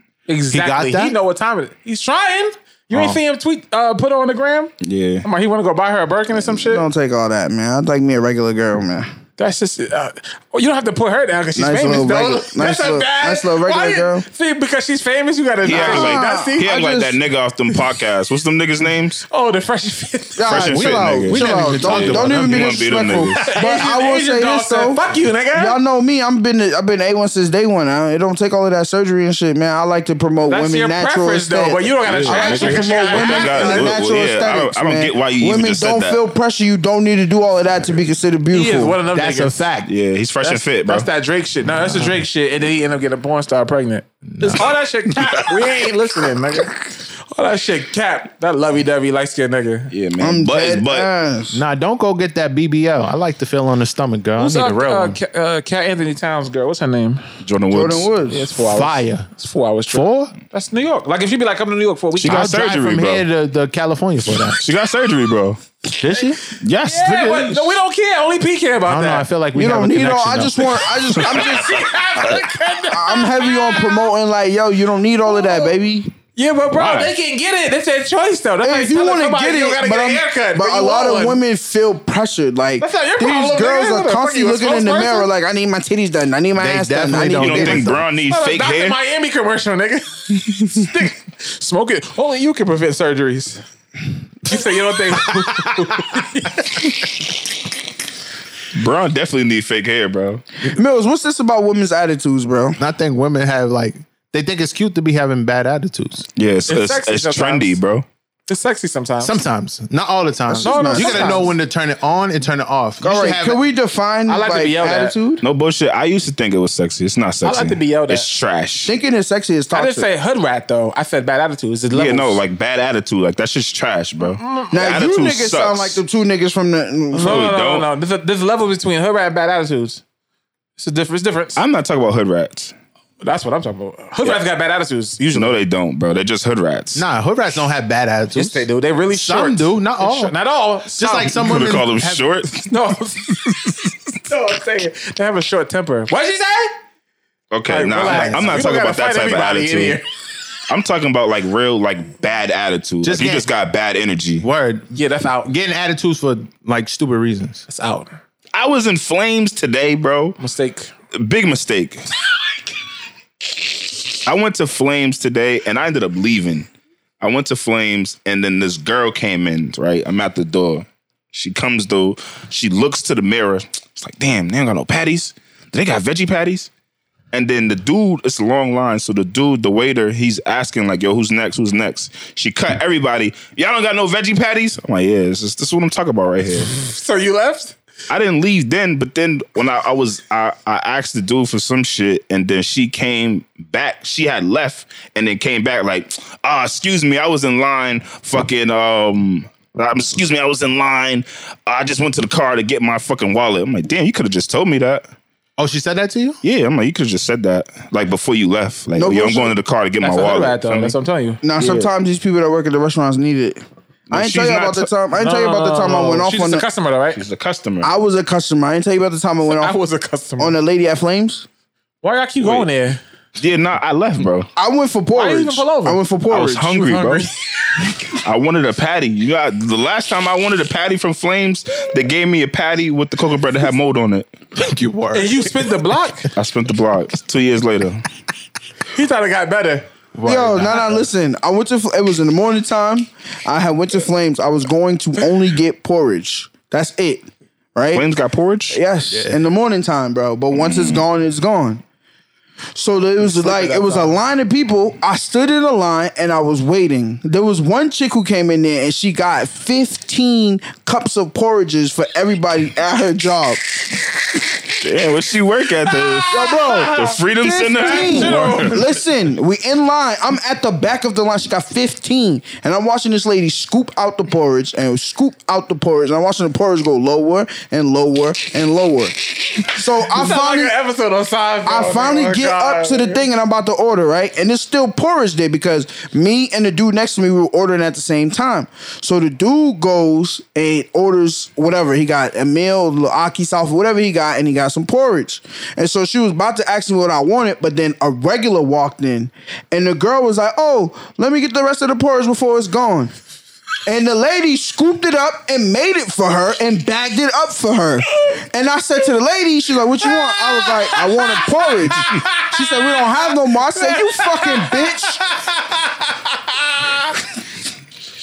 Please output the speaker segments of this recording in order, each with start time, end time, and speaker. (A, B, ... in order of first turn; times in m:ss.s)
0:00.3-0:04.7 A
0:00.5-0:01.2 B
0:02.9-0:03.2 B
0:04.8-0:05.2 C
0:05.2-0:06.8 A
0:06.5-0:09.1 D
0:09.4-0:16.7 A
0:11.6-0:14.2 D
0:15.6-0:19.2 C
0:15.6-0:17.2 D
0:19.3-0:20.6 A
0:20.4-0:25.0 D
0:20.5-0:23.4 C
0:20.7-0:23.0 B
0:23.4-0:25.8 A
0:25.5-0:39.0 D
0:30.5-0:33.9 A
0:32.1-0:36.2 C
0:38.5-0:39.7 A
0:39.1-0:39.9 B
0:39.8-0:41.1 C
0:40.4-0:49.9 A
0:41.8-0:42.1 B
0:44.3-0:44.7 B
0:49.9-0:51.1 C
0:50.2-0:51.6 D
0:51.5-0:55.2 B
0:54.4-0:57.2 A
0:57.4-0:58.1 C
0:57.7-0:58.4 D
0:58.3-1:02.5 A
0:58.6-0:59.3 B
0:59.9-1:00.3 B
1:02.2-1:03.2 C
1:02.3-1:04.6 B
1:04.6-1:05.6 C
1:05.9-1:06.4 B
1:06.6-1:07.8 C
1:06.8-1:09.3 A
1:08.8-1:10.9 B
1:09.5-1:11.8 D
1:10.9-1:14.1 A
1:12.9-1:16.1 D
1:15.3-1:15.7 A
1:16.3-1:21.4 A
1:16.8-1:17.1 B
1:18.6-1:28.0 D
1:22.8-1:25.3 A
1:26.6-1:28.0 B
1:27.4-1:29.0 C
1:28.3-1:33.6 A
1:34.4-1:36.9 A
1:38.7-1:40.4 C
1:40.6-1:42.8 D
1:42.8-1:46.2 B
1:46.4-1:48.0 C
1:46.7-1:47.8 A
1:48.5-1:49.4 A
1:49.2-1:53.6 B
1:50.5-1:51.5 D
1:50.6-1:51.5 A
1:53.0-1:55.4 D
1:54.3-1:55.2 A
1:55.4-1:58.9 C
1:57.4-1:58.3 A
1:58.8-2:00.1 D
1:59.7-2:02.4 A
2:01.9-2:06.0 C
2:04.4-2:05.0 A
2:04.7-2:07.4 D
2:07.1-2:10.0 A
2:07.2-2:07.9 C
2:10.8-2:11.6 A
2:11.6-2:12.7 C
2:13.2-2:15.5 A
2:15.3-2:17.0 C
2:16.9-2:20.3 B
2:18.3-2:21.5 A
2:20.9-2:22.2 B
2:21.3-2:22.6 C
2:22.6-2:26.7 A
2:27.5-2:30.0 C
2:27.7-2:30.0 A
2:28.0-2:28.7 B
2:30.7-2:34.4 C
2:33.0-2:33.5 B
2:34.4-2:34.9 B
2:34.9-2:35.5 A
2:35.4-2:37.6 B
2:37.7-2:38.2 A
2:38.5-2:40.4 C
2:40.4-2:40.9 A
2:41.1-2:42.1 C
2:44.2-2:46.7 C
2:47.2-2:56.7 C
2:57.3-3:06.7 C
3:06.6-3:07.8 A
3:08.1-3:25.1 C
3:25.6-3:26.4 B
3:26.4-3:30.9 C
3:29.0-3:29.5 D
3:30.0-3:31.4 A
3:31.4-3:36.6 D
3:31.6-3:31.9 C
3:34.1-3:34.9 C
3:35.1-3:37.2 A
3:37.2-3:37.9 C
3:37.8-3:39.8 D
3:39.5-3:40.6 A
3:40.4-3:41.4 D
3:42.0-3:43.0 A
3:42.4-3:42.7 C
3:43.4-3:44.5 C
3:44.6-3:46.8 D
3:45.1-3:46.0 A
3:46.3-3:47.2 C
3:46.7-3:47.9 A
3:48.1-3:54.3 C
3:54.5-3:55.8 B
3:55.1-3:56.3 A
3:56.3-3:58.0 C
3:58.9-3:59.9 A
4:00.1-4:01.0 B
4:00.2-4:08.0 D
4:07.9-4:08.8 C
4:08.7-4:11.8 D
4:09.1-4:09.4 B
4:10.5-4:11.0 C
4:12.7-4:23.6 D
4:13.2-4:14.2 A
4:24.7-4:28.7 C
4:25.9-4:27.2 A
4:26.3-4:40.7 D
4:27.8-4:28.8 A
4:40.1-4:43.2 A
4:41.6-5:03.1 D
5:03.8-5:15.2 D
5:10.0-5:15.0 A
5:15.4-5:15.6 B
5:16.1-5:17.2 A